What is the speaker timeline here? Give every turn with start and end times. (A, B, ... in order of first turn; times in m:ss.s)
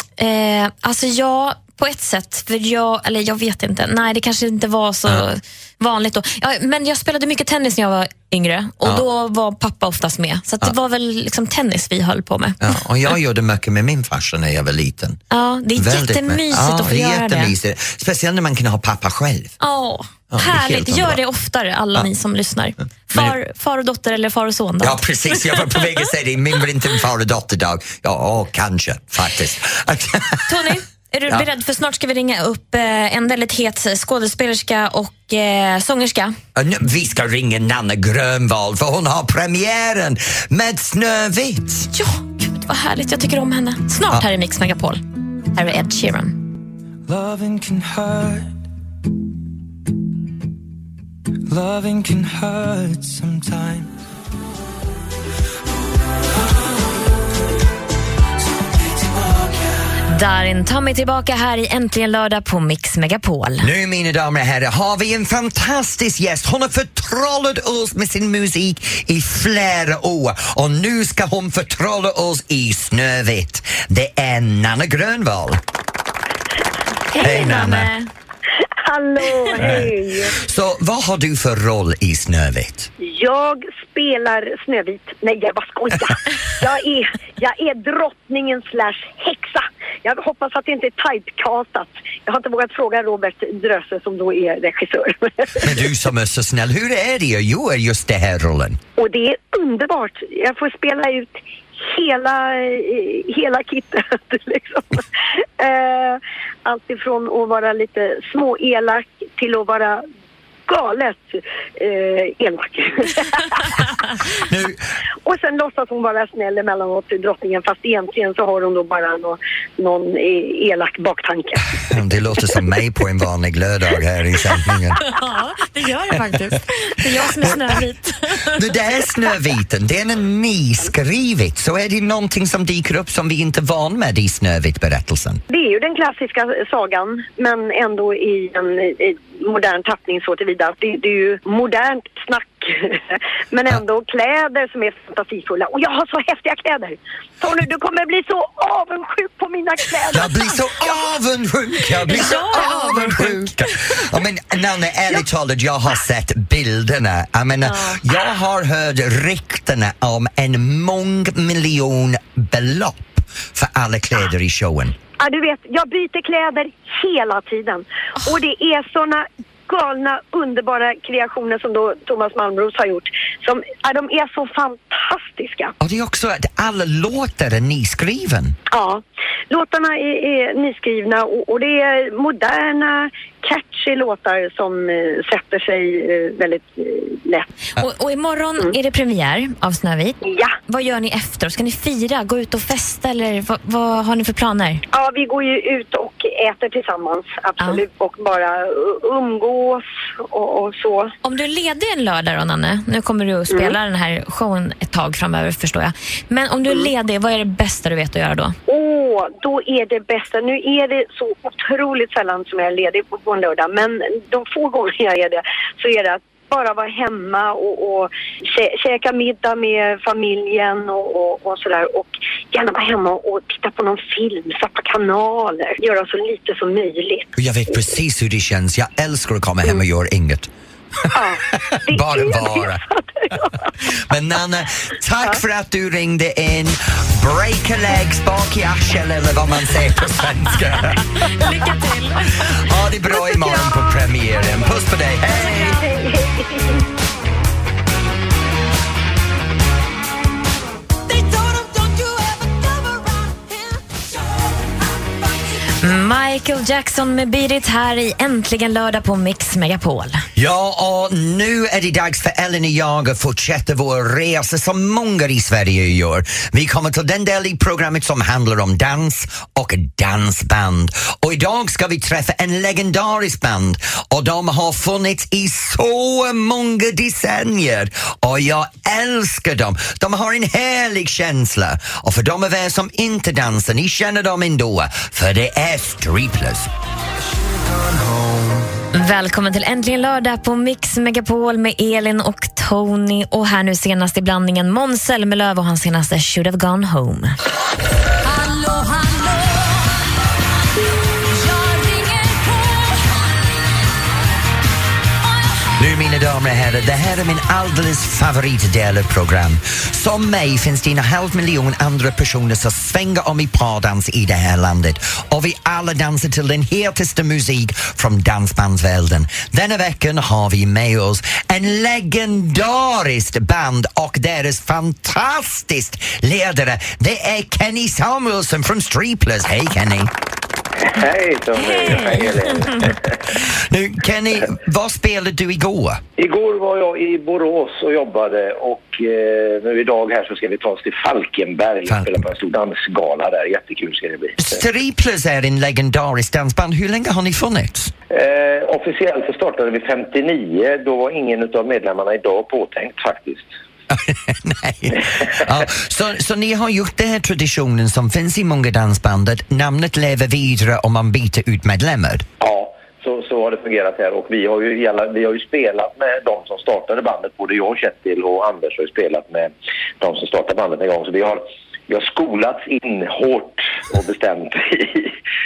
0:00.2-0:12.7 A
0:12.6-0:15.2 B
0:15.3-0:17.5 A
0:15.8-0:19.5 B
0:19.6-0:25.9 A
0:20.3-0:21.2 B
0:24.8-0:30.7 B
0:30.5-0:36.4 A
0:36.6-0:41.9 B
0:41.9-0:45.0 A
0:45.5-0:46.4 A
0:47.1-0:48.6 C
0:51.5-0:53.9 C
1:00.1-1:03.7 A
1:03.6-1:15.6 B
1:17.1-1:18.1 A
1:17.2-1:17.9 B
1:18.9-1:20.4 D
1:19.5-1:22.9 B
1:23.0-1:35.9 D
1:35.6-1:38.8 B
1:39.0-1:45.0 D
1:45.6-1:50.0 D
1:50.7-1:53.7 D
1:54.4-1:54.8 B
1:55.2-2:01.6 D
2:01.9-2:05.0 B
2:05.0-2:08.6 A
2:07.4-2:07.8 B
2:08.5-2:15.4 B
2:15.5-2:30.4 D
2:30.1-2:45.0 B
2:32.1-2:33.6 A
2:45.2-2:55.7 D
2:55.8-2:58.6 B
2:58.7-3:07.5 D
3:07.8-3:14.8 A
3:10.2-3:10.5 D
3:14.9-3:21.1 D
3:21.2-3:28.6 A
3:23.5-3:23.8 D
3:28.7-3:48.0 D
3:47.4-3:50.5 B
3:51.1-3:53.7 D
3:51.8-3:52.8 B
3:54.0-4:01.1 B
4:01.2-4:02.6 A
4:02.5-4:05.8 B
4:03.1-4:04.7 D
4:05.3-4:05.9 A
4:05.7-4:06.8 D
4:15.8-4:20.3 A
4:20.4-4:46.7 B
4:47.3-4:48.7 C
4:48.9-4:57.4 A
5:05.8-5:30.1 B
5:30.9-5:33.0 E
5:31.5-5:32.9 A
5:33.4-5:36.0 B
5:36.2-5:44.4 E
5:41.9-5:42.3 B
5:44.4-5:47.9 B
5:48.1-5:53.5 E
5:53.9-6:02.2 B
6:02.4-6:15.1 E